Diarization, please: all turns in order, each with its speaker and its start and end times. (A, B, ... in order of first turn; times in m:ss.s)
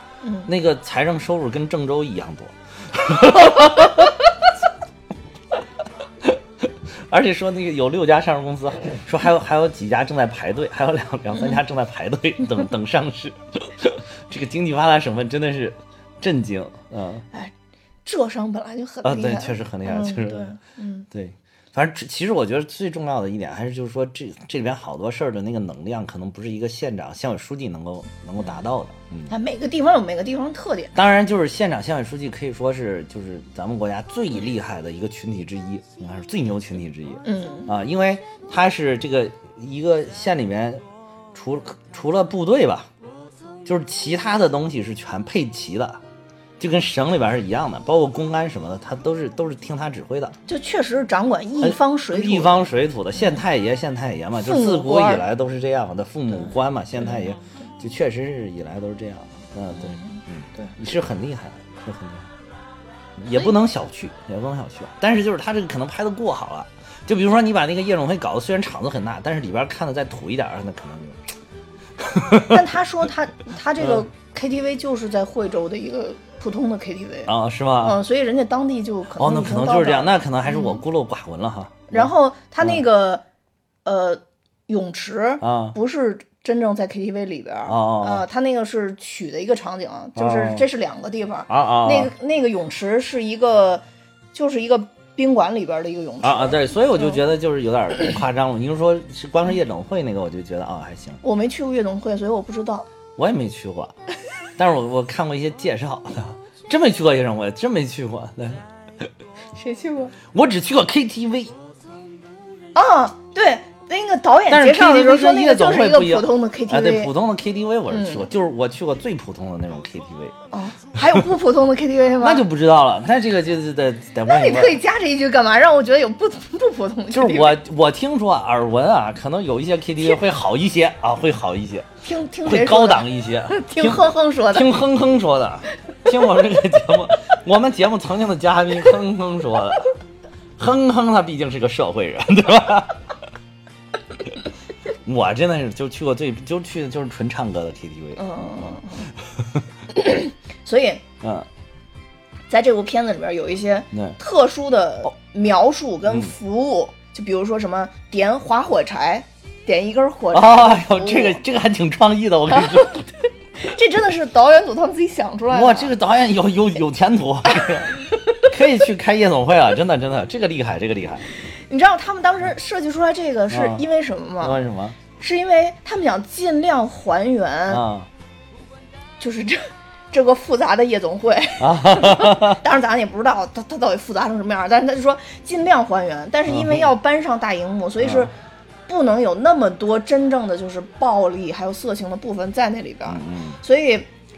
0:00.2-0:00.5 A
0:00.4-0:04.2 B
0:07.1-0:17.2 B
0:18.0-0:21.1 A
0:19.0-0:20.6 B
0:21.1-0:29.3 B
0:29.3-0:31.0 A
0:31.0-0:42.9 B
0:37.2-0:37.7 A
0:43.6-0:46.0 B
0:46.6-0:50.4 B
0:50.5-0:53.4 A
0:51.6-1:02.3 B
0:54.4-0:55.2 A
0:57.0-0:57.3 A
0:59.7-1:00.7 A
1:03.2-1:11.3 B
1:12.0-1:12.6 B
1:12.4-1:20.8 A
1:13.8-1:14.0 B
1:17.2-1:18.0 B
1:19.2-1:22.1 B
1:21.9-1:23.2 A
1:23.8-1:33.8 A
1:25.4-1:25.8 B
1:27.7-1:28.2 B
1:30.2-1:30.6 B
1:31.5-1:32.1 B
1:34.3-1:37.2 A
1:36.2-1:41.2 B
1:41.2-1:42.8 A
1:43.2-1:43.9 B
1:44.6-1:49.1 B
1:49.5-1:50.1 A
1:50.3-1:51.5 B
1:52.7-1:57.1 A
1:54.5-2:00.3 B
1:57.9-1:58.3 A
2:00.5-2:02.4 A
2:02.2-2:04.8 B
2:04.3-2:07.6 A
2:07.1-2:11.9 B
2:12.0-2:14.7 A
2:12.4-2:19.9 B
2:20.6-2:23.0 B
2:25.0-2:29.6 B
2:28.2-2:29.1 A
2:29.9-2:31.0 A
2:31.2-2:31.5 B
2:32.5-2:41.4 A
2:33.9-2:34.2 B
2:40.3-2:43.1 B
2:43.6-2:45.9 A
2:45.5-2:51.2 B
2:51.6-2:54.6 A
2:53.5-2:53.8 B
2:54.4-2:55.0 B
2:55.2-2:57.8 A
2:57.7-2:58.1 B
2:59.2-3:08.3 A
3:01.6-3:02.6 B
3:06.5-3:06.9 B
3:08.0-3:08.3 B
3:08.9-3:14.1 A
3:13.1-3:13.6 B